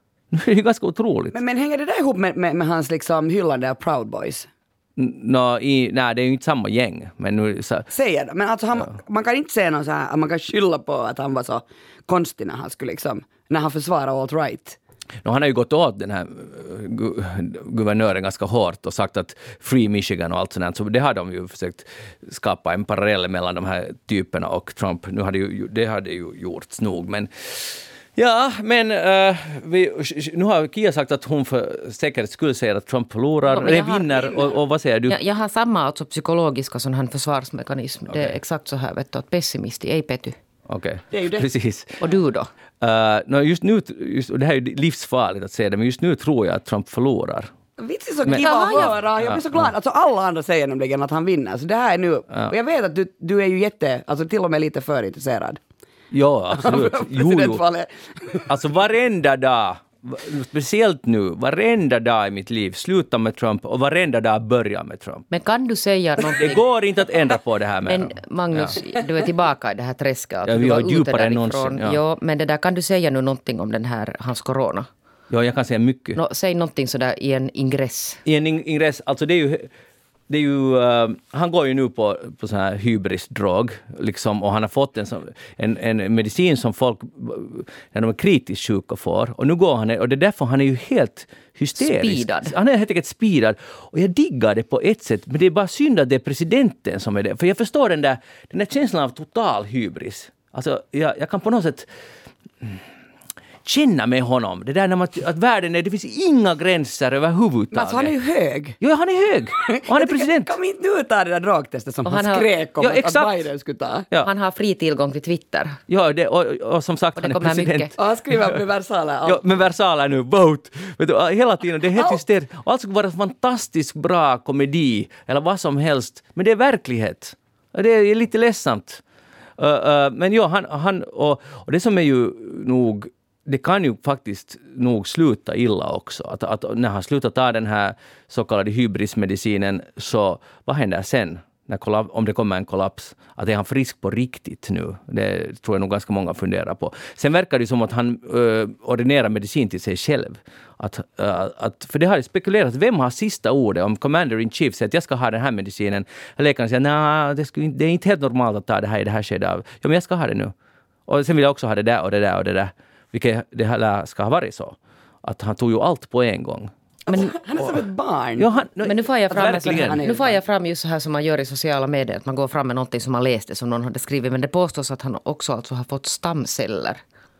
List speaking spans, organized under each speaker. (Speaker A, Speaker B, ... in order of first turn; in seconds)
Speaker A: 0.3-1.4, 5.0-7.9, 15.2-35.2, 40.7-42.0, 42.8-47.5, 48.2-49.7, 56.1-57.6, 58.5-65.2, 66.3-68.8, 70.5-72.0, 75.3-76.2, 78.2-79.7, 80.3-101.9, 103.6-108.1, 108.8-110.5, 112.8-113.4, 115.9-117.9, 119.2-129.0, 129.6-160.5, 161.1-166.7, 167.6-167.8, 168.4-170.1
Speaker B: 1.3-4.5, 7.9-14.8, 41.1-41.5, 47.8-55.6, 56.5-58.5, 107.7-108.8, 109.6-114.1, 118.0-119.6, 167.1-168.5, 169.6-170.4
Speaker C: 33.5-34.4, 35.1-40.4, 42.0-42.5, 48.3-49.0, 65.3-66.6, 67.9-74.9, 76.2-78.2, 91.8-92.5, 112.0-112.5, 114.2-115.8, 117.2-117.9, 167.1-167.3, 168.8-177.0